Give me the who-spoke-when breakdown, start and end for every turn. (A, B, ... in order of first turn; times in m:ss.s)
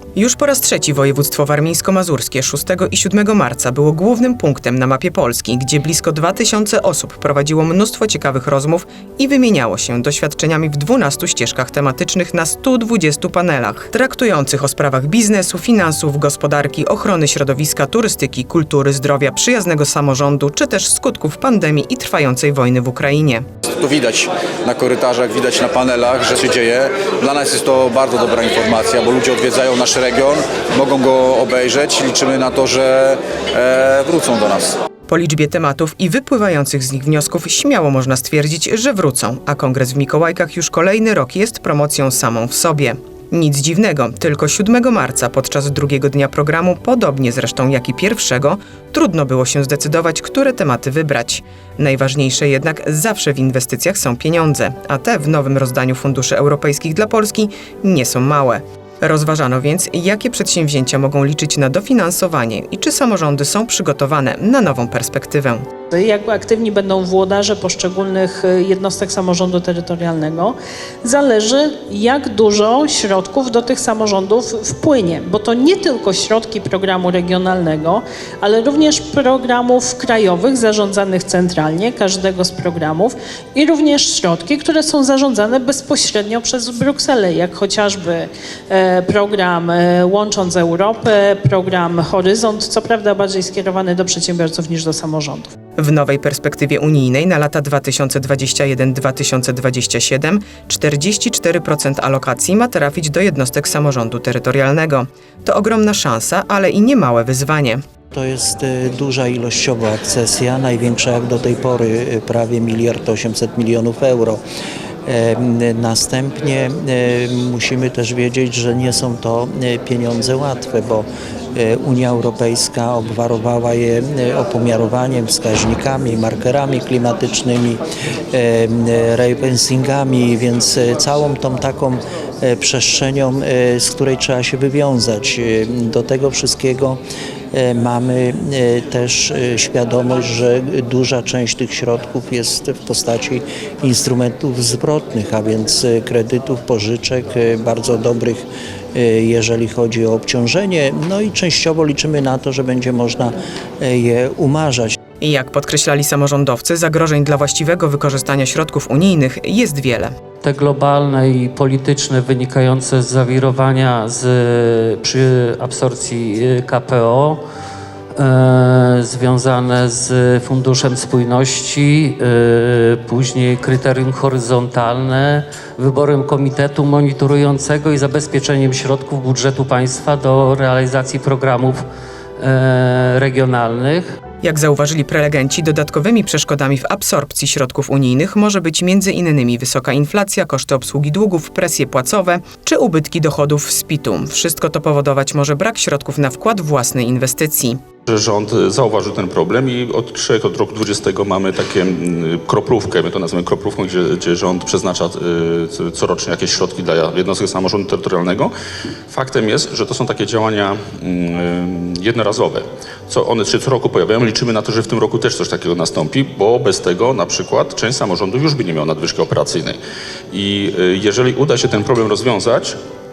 0:00.1-0:23.4 A
0:23.8-0:34.8 B
0:35.1-1:05.7 A
1:05.9-1:35.5 C
1:35.8-1:47.8 A
1:48.1-1:54.4 D
1:55.0-2:07.8 D
2:08.3-2:17.0 D
2:17.5-2:35.0 D
2:35.2-2:40.1 A
2:40.4-2:47.4 E
2:48.2-3:01.8 E
3:02.4-3:04.1 E
3:04.4-3:17.8 A
3:18.1-3:28.5 F
3:29.1-3:39.8 F
3:40.3-3:42.8 F